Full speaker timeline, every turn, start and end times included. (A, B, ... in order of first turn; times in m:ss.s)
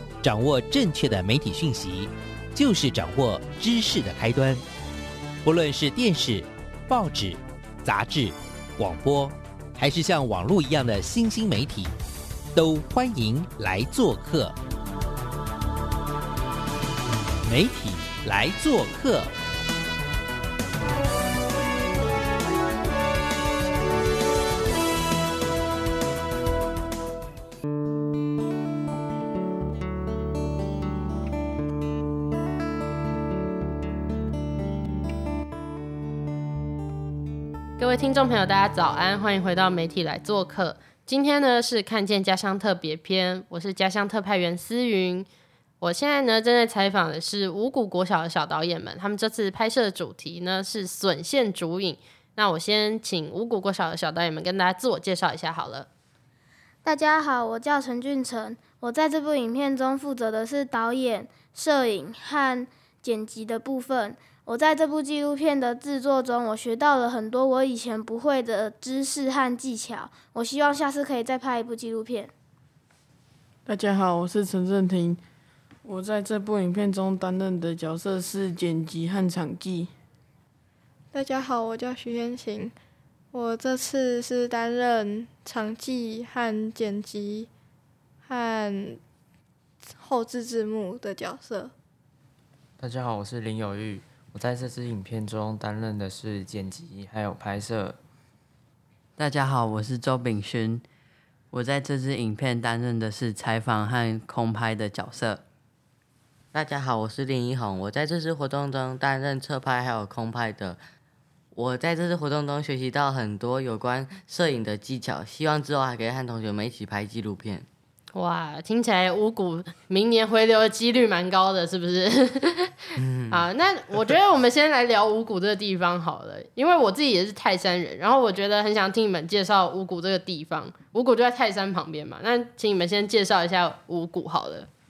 0:00.2-0:04.6 A
0:05.4-0:11.9 A
0:12.5-0:14.5 A
0:17.4-0:19.3 A
0:37.8-0:45.3 B
0:45.8-0:55.9 B
0:56.8-1:12.3 C
1:13.6-1:15.2 D
1:15.8-1:19.9 D
1:21.1-1:22.7 E
1:23.3-1:27.5 E
1:28.2-1:29.0 E
1:30.0-1:31.7 E
1:32.8-1:38.0 F
1:39.2-1:40.8 G
1:41.5-1:45.4 G
1:46.5-1:50.8 H
1:51.5-1:57.7 H
1:58.1-2:02.8 B
2:03.0-2:03.4 H
2:03.3-2:14.7 B